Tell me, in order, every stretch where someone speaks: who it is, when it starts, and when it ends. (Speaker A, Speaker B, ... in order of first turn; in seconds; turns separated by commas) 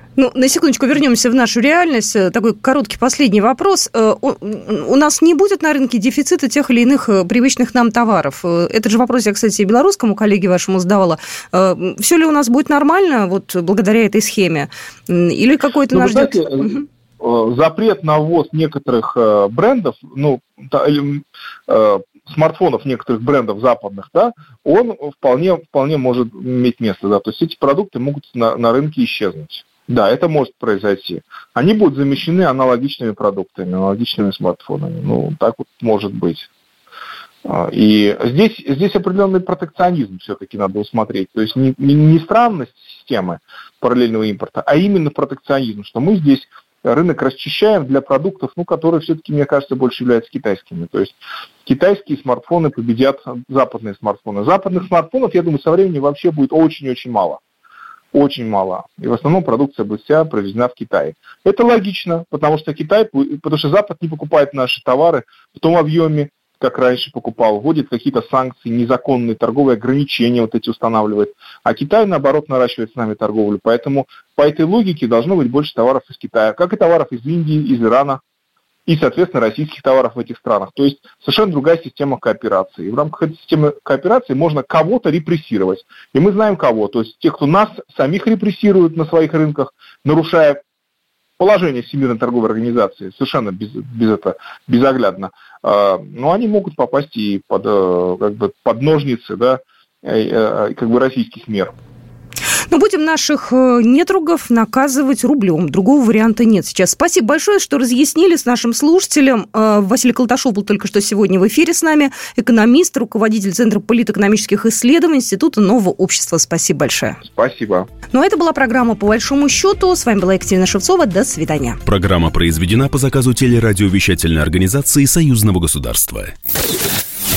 Speaker A: 0.2-16.9, Speaker B: 15.9-16.6, Speaker B: 17.2-36.5, Speaker B: 37.4-57.4, Speaker B: 58.1-78.2, Speaker B: 78.9-90.6, Speaker B: 91.4-101.7, Speaker A: 102.7-117.2, Speaker B: 117.3-117.9, Speaker A: 118.1-121.8, Speaker C: 121.9-126.3